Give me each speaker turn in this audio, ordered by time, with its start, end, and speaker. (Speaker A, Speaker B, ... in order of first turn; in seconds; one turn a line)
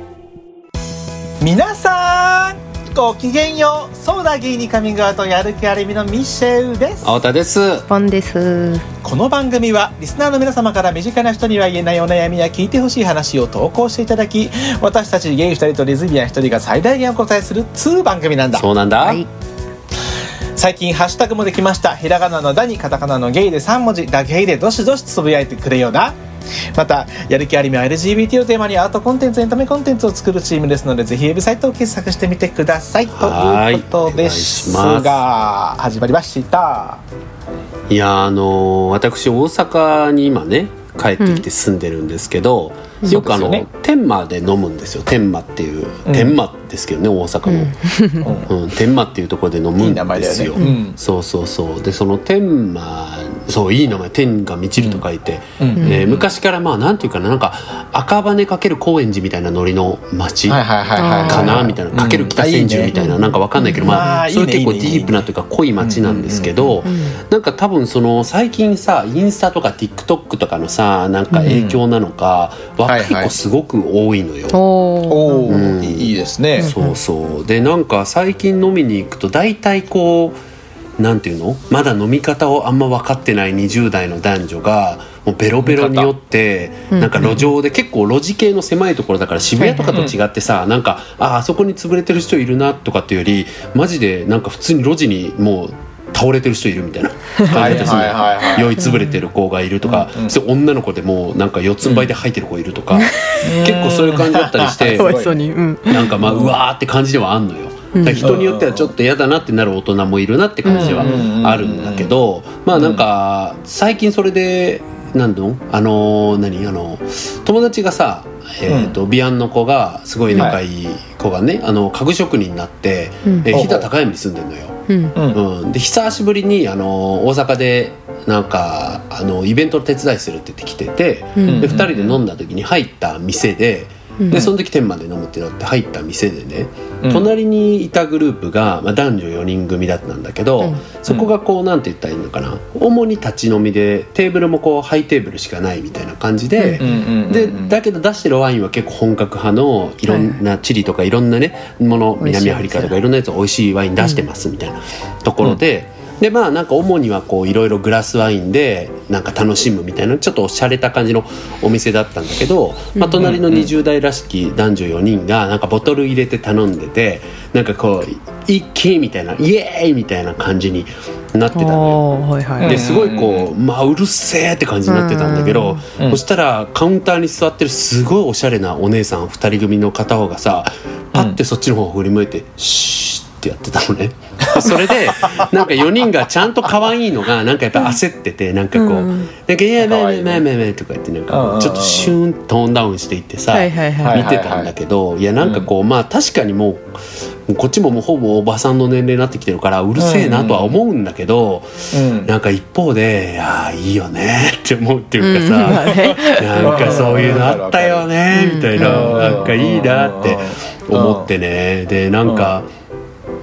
Speaker A: 1.4-7.1
Speaker B: 7.0-7.9
Speaker C: 7.9-8.8
Speaker A: 9.0-18.7
Speaker B: 18.5-19.2
Speaker C: 19.0-19.3
Speaker A: 20.6-26.1
Speaker A: 26.7-37.0
Speaker B: 33.1-35.2
Speaker B: 37.9-47.8
Speaker A: 43.1-43.6
Speaker A: 46.1-46.4
Speaker C: 47.5-48.4
Speaker A: 48.2-48.5
Speaker B: 48.5-60.6
Speaker A: 49.8-51.0
Speaker A: 54.8-55.0
Speaker A: 55.6-56.2
Speaker A: 60.5-63.0
Speaker C: 61.0-61.7
Speaker B: 61.2-74.6
Speaker C: 62.9-64.2
Speaker A: 63.8-65.2
Speaker A: 65.8-66.8
Speaker C: 66.8-67.2
Speaker C: 71.3-71.6
Speaker A: 71.5-71.8
Speaker A: 72.8-73.4
Speaker C: 74.5-75.6
Speaker A: 75.1-76.7
Speaker B: 75.5-80.4
Speaker C: 76.6-77.0
Speaker B: 81.0-105.2
Speaker A: 85.6-86.1
Speaker C: 86.9-87.3
Speaker C: 89.6-90.1
Speaker C: 97.4-98.0
Speaker A: 97.5-98.8
Speaker C: 98.8-99.2
Speaker A: 99.8-100.3
Speaker A: 101.8-102.1
Speaker C: 102.9-103.5
Speaker A: 103.4-105.3
Speaker C: 104.9-106.2
Speaker B: 105.9-172.0
Speaker A: 106.2-106.5
Speaker C: 107.9-108.3
Speaker A: 108.2-108.9
Speaker C: 110.7-111.3
Speaker A: 110.7-112.1
Speaker A: 112.7-113.0
Speaker A: 118.7-118.9
Speaker C: 123.2-123.6
Speaker A: 123.5-123.9
Speaker C: 124.9-125.1
Speaker A: 125.1-125.4
Speaker C: 131.4-131.8
Speaker A: 131.4-132.2
Speaker C: 134.2-134.5
Speaker A: 137.0-137.3
Speaker C: 146.6-146.8
Speaker A: 146.8-147.8
Speaker C: 150.1-150.4
Speaker C: 152.2-153.0
Speaker C: 162.9-163.2
Speaker A: 163.2-163.7
Speaker C: 171.5-172.8
Speaker A: 172.6-173.5
Speaker B: 172.6-196.8
Speaker C: 174.8-175.8
Speaker A: 176.0-176.2
Speaker A: 184.5-185.5
Speaker C: 188.7-189.3
Speaker A: 189.8-190.4
Speaker A: 191.3-192.1
Speaker C: 193.5-194.3
Speaker A: 194.0-194.7
Speaker A: 195.4-195.7
Speaker B: 197.5-212.7
Speaker A: 200.0-200.8
Speaker A: 201.9-202.3
Speaker C: 205.2-207.1
Speaker A: 205.7-208.1
Speaker C: 208.3-209.4
Speaker A: 208.8-211.3
Speaker A: 212.2-212.5